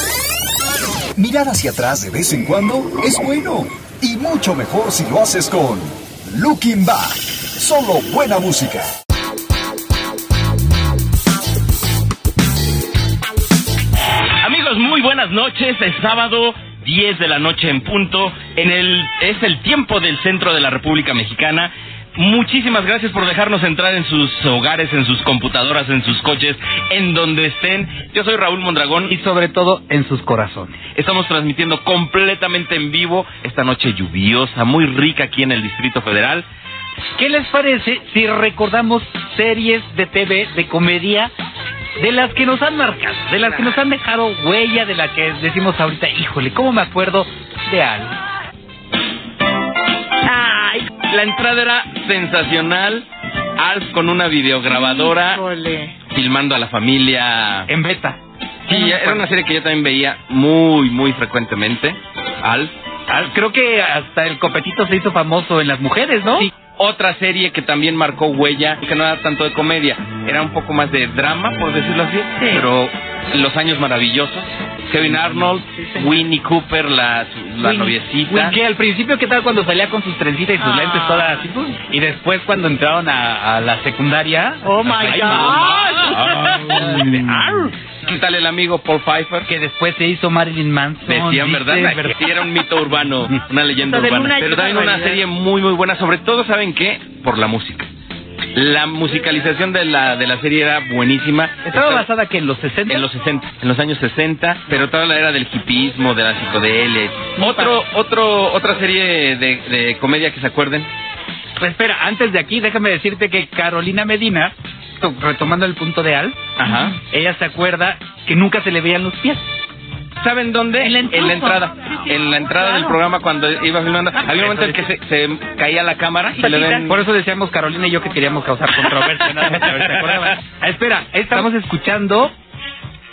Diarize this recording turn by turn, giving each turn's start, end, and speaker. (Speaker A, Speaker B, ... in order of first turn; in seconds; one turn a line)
Speaker A: 1.2-8.9
Speaker B: 14.4-29.1
Speaker C: 29.1-30.8
Speaker B: 30.9-36.5
Speaker C: 37.2-41.3
Speaker C: 42.0-48.2
Speaker D: 50.2-50.9
Speaker B: 51.0-55.4
Speaker D: 54.7-55.9
Speaker B: 56.1-57.7
Speaker C: 57.7-59.3
Speaker B: 58.7-62.7
Speaker C: 63.1-66.5
Speaker B: 66.7-78.6
Speaker D: 72.4-72.7
Speaker C: 75.2-75.5
Speaker D: 75.7-76.2
Speaker C: 77.6-87.8
Speaker D: 80.6-81.5
Speaker D: 84.6-86.0
Speaker B: 84.8-87.4
Speaker B: 88.0-89.5
Speaker C: 89.5-92.2
Speaker B: 91.1-97.9
Speaker D: 93.8-95.2
Speaker B: 98.5-102.1
Speaker C: 101.6-103.0
Speaker B: 102.9-110.9
Speaker C: 107.4-107.8
Speaker C: 111.6-116.5
Speaker B: 116.6-117.0
Speaker D: 116.7-116.9
Speaker C: 117.0-119.4
Speaker B: 120.2-126.9
Speaker D: 120.8-123.0
Speaker C: 124.3-124.8
Speaker D: 126.4-126.8
Speaker C: 126.9-132.3